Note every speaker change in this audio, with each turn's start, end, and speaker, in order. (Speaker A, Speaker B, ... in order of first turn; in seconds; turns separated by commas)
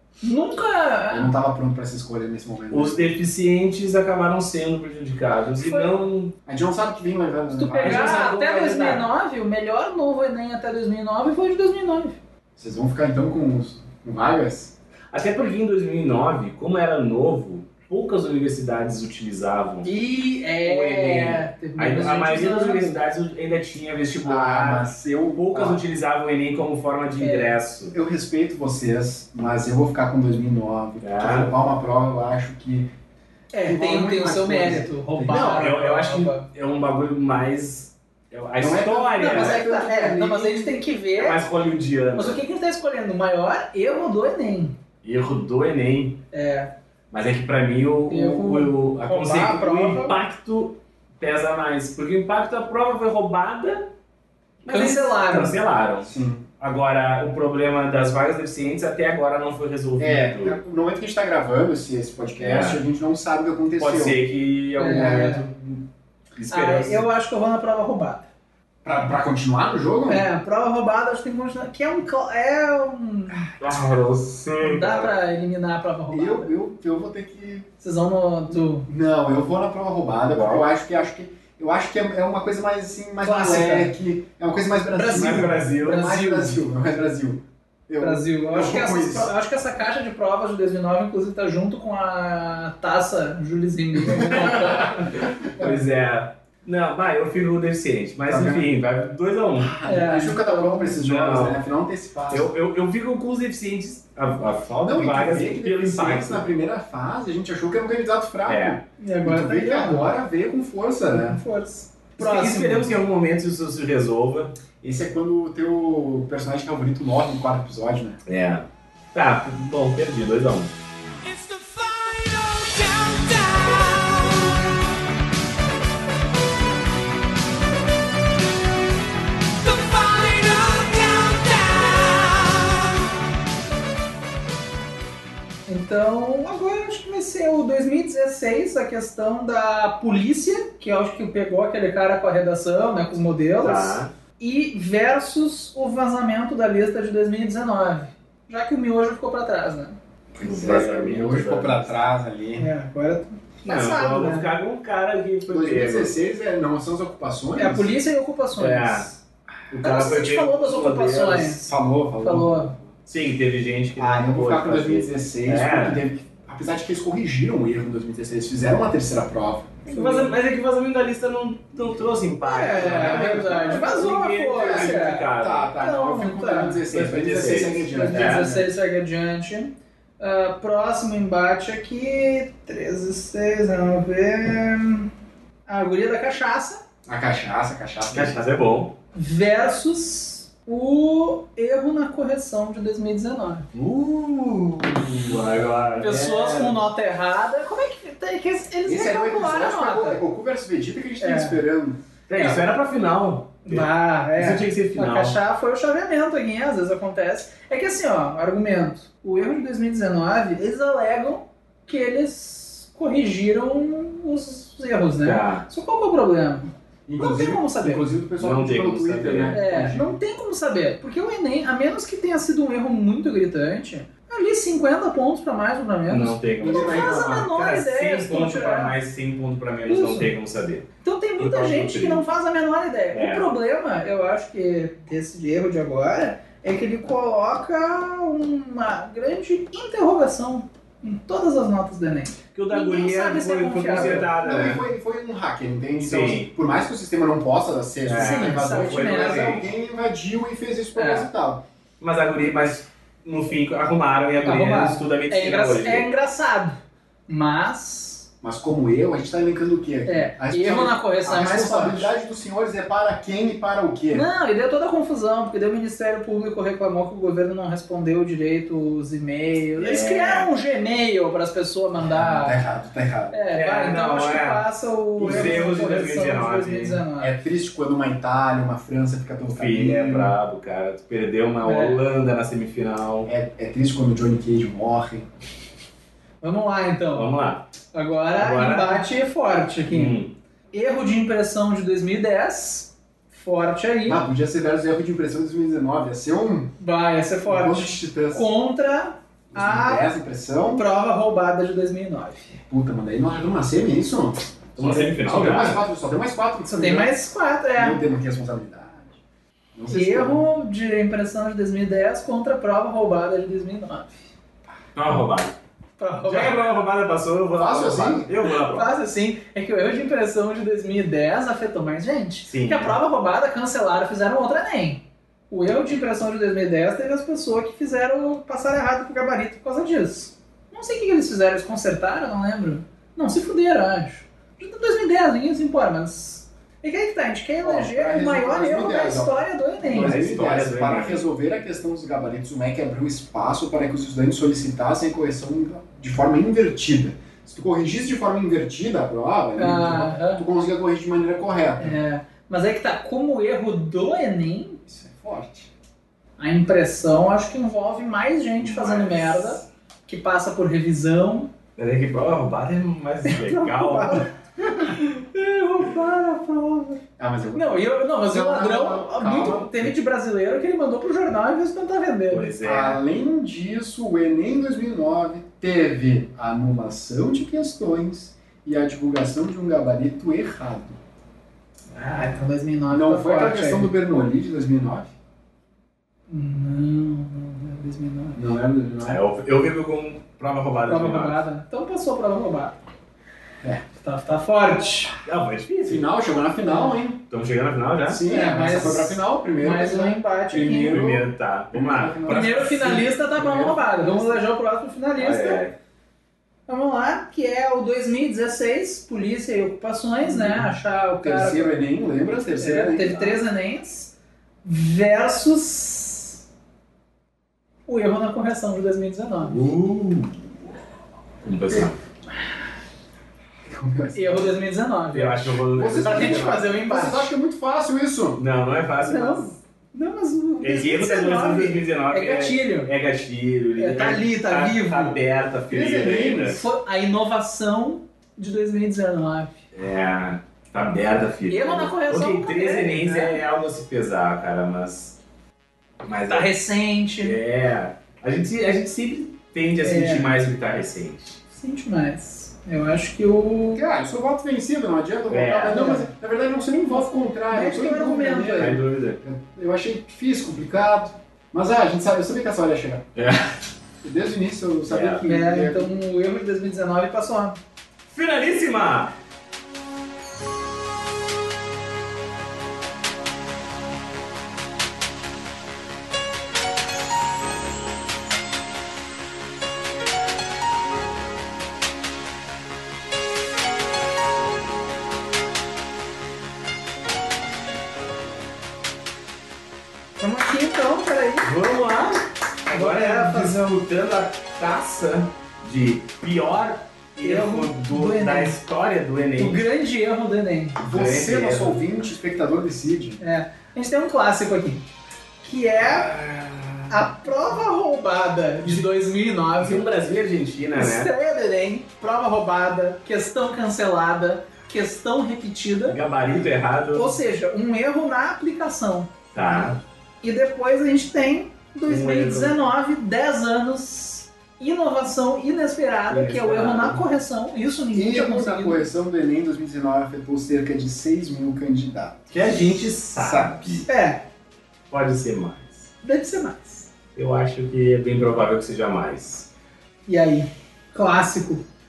Speaker A: 0.2-1.3, Speaker B: 1.1-3.0, Speaker C: 2.7-6.3, Speaker A: 5.6-5.9, Speaker B: 6.5-8.3, Speaker A: 7.5-12.2, Speaker C: 7.8-9.1, Speaker B: 12.6-14.7, Speaker C: 15.1-19.9, Speaker A: 19.8-23.0, Speaker C: 20.6-28.0, Speaker B: 24.2-25.8, Speaker A: 27.2-27.6, Speaker B: 27.9-32.9, Speaker C: 31.0-31.5, Speaker A: 33.5-36.5, Speaker B: 33.6-35.6, Speaker C: 35.3-39.6, Speaker B: 38.6-40.8, Speaker A: 39.2-41.4, Speaker C: 41.2-42.4, Speaker A: 42.1-44.8, Speaker C: 45.0-46.2, Speaker A: 46.3-46.7, Speaker C: 47.1-53.9, Speaker A: 48.1-50.2, Speaker C: 54.6-60.6, Speaker A: 54.7-55.6, Speaker B: 56.0-56.5, Speaker B: 60.0-64.2, Speaker C: 62.4-62.8, Speaker C: 63.8-65.8, Speaker A: 64.8-65.4, Speaker C: 66.4-67.0, Speaker A: 66.5-68.3, Speaker B: 68.8-70.3, Speaker A: 70.1-73.5, Speaker C: 73.5-75.1, Speaker A: 74.6-76.5, Speaker B: 76.1-77.7, Speaker A: 77.8-78.9, Speaker B: 78.9-89.3, Speaker C: 80.3-80.7, Speaker A: 83.2-83.9, Speaker A: 84.9-86.6, Speaker C: 85.2-86.1, Speaker A: 88.0-95.1, Speaker C: 94.2-99.8, Speaker B: 94.3-94.7, Speaker B: 98.3-98.7, Speaker B: 99.6-102.5, Speaker A: 99.9-100.9, Speaker C: 100.9-101.6, Speaker C: 102.3-106.5, Speaker B: 104.8-111.4, Speaker C: 108.5-108.8, Speaker A: 109.0-110.2, Speaker A: 111.1-112.9, Speaker C: 112.2-114.6, Speaker B: 114.8-118.2, Speaker C: 118.3-120.7, Speaker D: 121.2-124.8, Speaker D: 129.6-133.0, Speaker A: 135.7-150.0, Speaker C: 143.6-144.1, Speaker B: 150.3-152.7, Speaker C: 150.4-152.0, Speaker A: 152.6-154.5, Speaker C: 153.7-156.2, Speaker B: 155.5-158.0, Speaker A: 157.6-159.2, Speaker C: 158.6-159.1, Speaker C: 159.7-161.6, Speaker A: 159.8-162.8, Speaker B: 161.7-162.9, Speaker C: 163.1-166.0, Speaker B: 164.0-169.8, Speaker C: 169.9-175.7, Speaker A: 169.9-170.4, Speaker A: 172.4-175.3, Speaker B: 172.8-173.9, Speaker B: 174.5-178.6, Speaker A: 175.8-176.8, Speaker C: 176.9-178.6, Speaker A: 177.9-185.1, Speaker A: 185.7-186.8, Speaker B: 187.1-188.4, Speaker C: 188.1-189.0, Speaker A: 189.1-193.7, Speaker C: 193.7-196.8, Speaker A: 196.0-200.2, Speaker B: 198.9-202.0, Speaker A: 201.2-201.6, Speaker C: 202.3-205.4, Speaker A: 202.4-202.6, Speaker A: 203.7-218.1, Speaker C: 215.2-215.6, Speaker B: 217.1-220.2, Speaker C: 218.4-219.6, Speaker A: 219.5-228.9, Speaker C: 226.1-230.9, Speaker B: 226.6-227.5, Speaker A: 229.9-230.3, Speaker A: 231.0-244.3, Speaker C: 231.4-232.2, Speaker C: 233.1-233.5, Speaker C: 242.5-244.8, Speaker B: 243.9-251.6, Speaker C: 246.0-246.5, Speaker C: 248.1-249.7, Speaker A: 248.2-249.6, Speaker A: 250.9-251.3, Speaker C: 252.0-256.1, Speaker A: 254.4-258.3, Speaker B: 258.4-264.3, Speaker A: 260.1-262.1, Speaker A: 264.1-272.6, Speaker C: 269.8-270.5, Speaker B: 272.0-273.4, Speaker A: 273.3-277.3, Speaker C: 273.5-274.6, Speaker B: 275.2-275.8, Speaker C: 275.2-277.0, Speaker B: 277.2-280.4, Speaker C: 279.6-283.3, Speaker A: 281.6-282.0, Speaker B: 283.3-285.3, Speaker A: 286.4-287.3, Speaker C: 287.1-287.7, Speaker A: 287.9-290.2, Speaker C: 288.4-289.1, Speaker C: 289.9-290.3, Speaker A: 290.7-294.2, Speaker B: 294.1-296.7, Speaker A: 296.8-300.1, Speaker B: 297.5-298.5, Speaker B: 299.5-300.9, Speaker A: 300.7-302.6, Speaker B: 302.7-307.1, Speaker C: 304.8-305.9, Speaker A: 306.7-308.0, Speaker B: 307.8-309.1, Speaker B: 309.8-310.4, Speaker A: 309.9-314.2, Speaker C: 314.9-315.6, Speaker A: 316.0-316.7, Speaker C: 316.2-318.9, Speaker B: 317.6-318.3, Speaker A: 318.6-340.2, Speaker C: 322.5-323.0, Speaker B: 337.6-352.0, Speaker C: 339.9-341.2, Speaker A: 349.6-350.4, Speaker A: 351.8-354.8, Speaker B: 354.9-355.7, Speaker A: 356.4-361.5, Speaker C: 358.6-359.7, Speaker C: 361.8-364.3, Speaker A: 363.2-367.0, Speaker B: 367.2-369.9, Speaker A: 367.5-372.5, Speaker C: 372.3-373.0, Speaker B: 372.6-381.0, Speaker A: 381.9-383.9, Speaker B: 382.9-385.1, Speaker A: 386.3-388.4, Speaker B: 388.4-389.2, Speaker C: 389.0-391.4, Speaker A: 390.9-392.8, Speaker A: 394.0-395.1, Speaker C: 395.2-396.1, Speaker B: 395.9-397.2, Speaker A: 396.7-396.9, Speaker C: 397.3-398.2, Speaker B: 398.1-404.5, Speaker A: 398.3-401.0, Speaker C: 400.7-402.9, Speaker A: 402.3-405.6, Speaker C: 405.2-405.8, Speaker A: 406.7-411.8, Speaker B: 411.2-413.4, Speaker A: 412.6-414.1, Speaker A: 414.6-416.4, Speaker A: 417.9-419.7, Speaker C: 419.4-420.6, Speaker C: 421.4-422.0, Speaker B: 423.7-424.6, Speaker A: 424.1-427.3, Speaker C: 425.1-426.7, Speaker B: 425.7-428.4, Speaker C: 428.4-429.6, Speaker A: 429.1-432.9, Speaker C: 430.6-436.6, Speaker A: 433.8-435.2, Speaker B: 435.7-436.6, Speaker A: 436.5-439.6, Speaker C: 439.7-445.2, Speaker A: 441.5-443.4, Speaker C: 446.0-446.5, Speaker A: 446.3-447.4, Speaker C: 447.2-451.4, Speaker A: 449.8-450.4, Speaker A: 451.5-453.8, Speaker B: 453.7-463.1, Speaker C: 455.3-455.9, Speaker A: 455.7-456.1, Speaker A: 457.5-458.8, Speaker C: 458.6-459.2, Speaker C: 463.1-463.5, Speaker B: 464.0-465.9, Speaker C: 464.9-465.2, Speaker A: 465.2-467.6, Speaker C: 468.1-469.1, Speaker A: 490.2-491.5, Speaker C: 491.4-499.6, Speaker A: 492.7-493.6, Speaker A: 497.2-498.6, Speaker A: 499.4-500.8, Speaker C: 500.8-501.8, Speaker B: 500.8-503.2, Speaker A: 503.2-504.8, Speaker A: 505.4-506.1, Speaker C: 505.8-507.0, Speaker A: 506.9-509.9, Speaker C: 509.6-511.1, Speaker A: 510.8-516.0, Speaker C: 515.9-517.2, Speaker A: 517.0-519.1, Speaker C: 519.3-519.8, Speaker A: 520.2-528.9, Speaker C: 521.9-522.6, Speaker C: 526.1-527.0, Speaker B: 527.9-533.8, Speaker C: 532.3-533.9, Speaker A: 533.9-534.2, Speaker C: 534.9-535.9, Speaker A: 536.0-536.9, Speaker C: 537.1-539.5, Speaker A: 540.1-541.6